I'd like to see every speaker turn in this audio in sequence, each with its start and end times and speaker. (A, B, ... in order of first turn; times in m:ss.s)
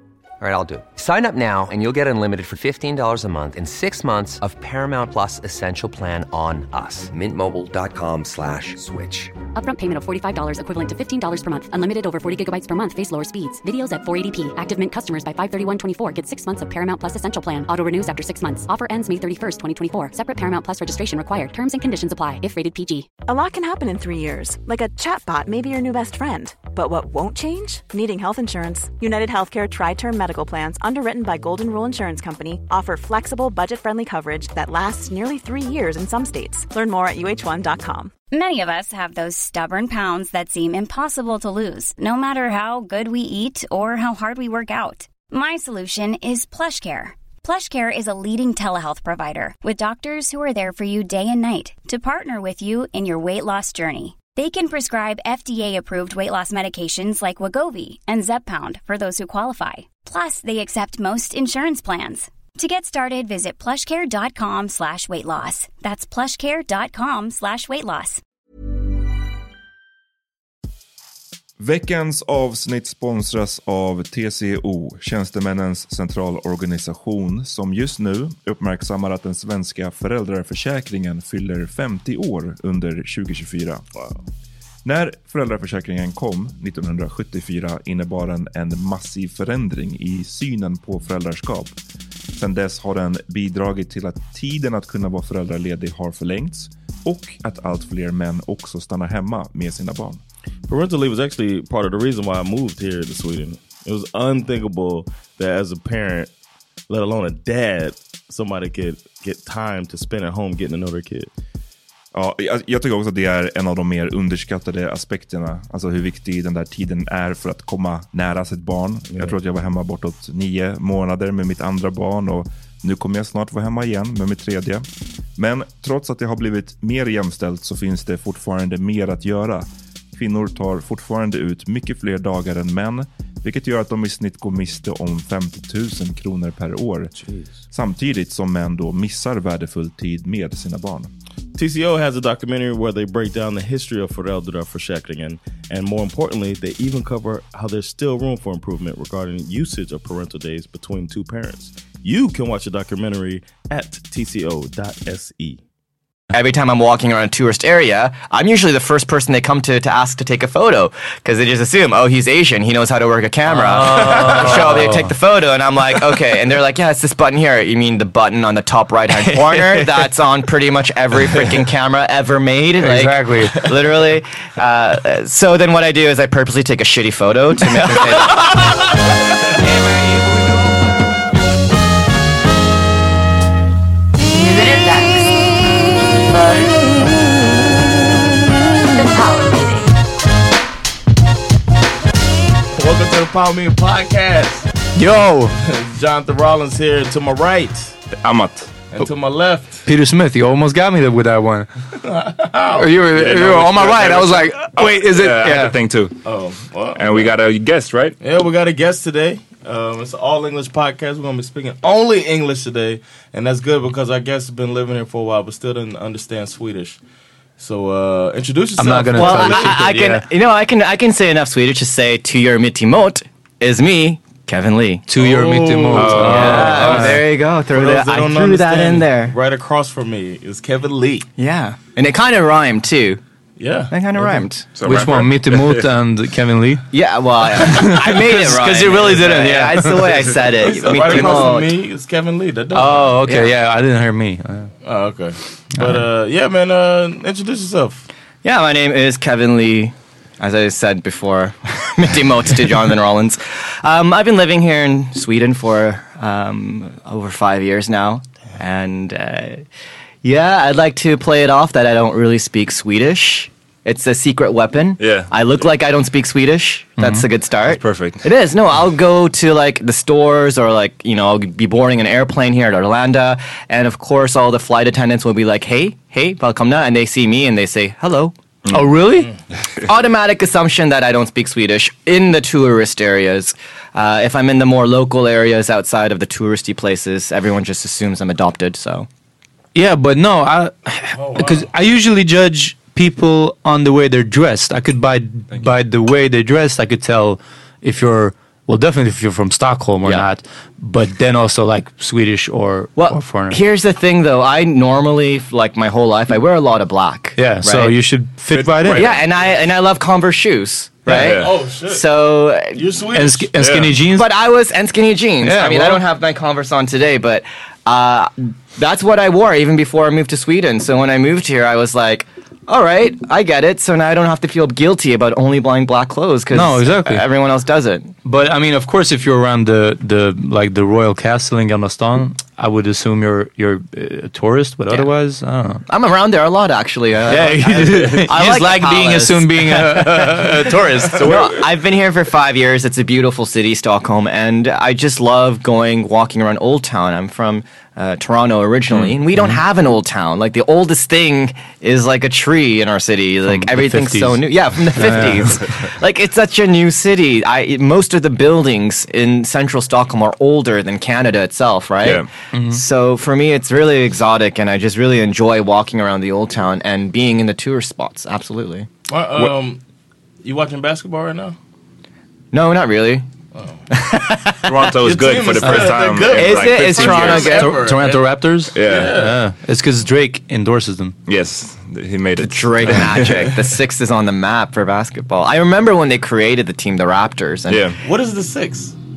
0:00.4-0:09.3 A
0:09.5-0:23.1 B
0:23.2-0:38.1 C
0:38.3-1:08.2 D
1:11.6-1:23.8 E
1:24.0-1:24.2 F
1:24.8-1:31.8 E
1:32.4-1:40.2 E
1:40.7-1:46.3 F
1:46.9-1:51.3 F
1:52.1-2:17.1 E
2:17.7-2:21.1 E
2:21.6-2:35.6 F
2:36.3-2:58.6 G
2:43.5-2:45.1 H
2:52.8-2:53.6 H
3:04.3-3:06.8 I
3:08.9-3:09.9 I
3:12.7-3:14.7 F
3:15.0-3:15.6 H
3:15.6-3:17.9 F
3:18.1-3:19.0 E
3:18.9-3:19.8 F
3:19.8-3:21.7 H
3:22.0-3:23.0 F
3:22.7-3:25.8 H
3:23.1-3:26.2 E
3:26.2-3:27.3 F
3:26.9-3:28.2 E
3:28.2-3:37.0 F
3:37.6-3:39.7 F
3:38.8-3:40.2 H
3:39.2-3:45.1 G
3:45.1-3:47.2 H
3:45.2-3:47.1 F
3:45.9-3:47.0 E
3:46.2-3:49.4 G
3:47.7-3:51.3 F
3:51.4-3:53.2 G
3:53.6-3:54.4 F
3:53.9-3:54.6 G
3:54.7-3:55.9 E
3:54.8-3:56.9 H
3:56.9-4:01.7 G
3:57.6-4:00.3 H
4:00.6-4:03.2 F
4:02.7-4:04.7 H
4:03.2-4:03.5 G
4:04.8-4:08.0 F
4:08.4-4:19.6 G
4:20.2-4:38.3 G
4:25.0-4:25.6 E
4:27.0-4:27.2 H
4:27.6-4:28.2 E
4:38.6-4:39.0 E
4:38.7-4:39.3 H
4:39.8-4:49.1 G
4:49.7-5:03.6 H
4:51.1-4:51.7 F
5:03.0-5:08.0 G
5:07.4-5:09.0 H
5:08.5-5:09.3 E
5:08.8-5:12.8 G
5:11.1-5:11.5 E
5:11.1-5:12.1 F
5:12.7-5:13.5 F
5:13.1-5:14.3 H
5:13.6-5:14.0 E
5:14.1-5:28.1 G
5:15.4-5:16.0 H
5:26.5-5:27.2 H
5:28.2-5:35.8 H
5:35.9-5:40.5 G
5:37.3-5:41.2 H
5:41.1-5:41.6 E
5:41.1-6:08.9 G
5:53.5-5:55.6 H
6:02.0-6:02.3 E
6:02.5-6:02.8 H
6:09.1-6:09.8 F
6:10.4-6:11.6 F
6:12.5-6:13.2 G
6:13.5-6:13.8 F
6:13.9-6:14.9 G
6:14.7-6:17.7 E
6:15.0-6:19.4 F
6:15.6-6:21.2 H
6:16.6-6:17.6 G
6:18.7-6:19.2 E
6:21.2-6:23.5 E
6:22.4-6:27.9 G
6:27.7-6:28.0 E
6:28.0-6:28.9 F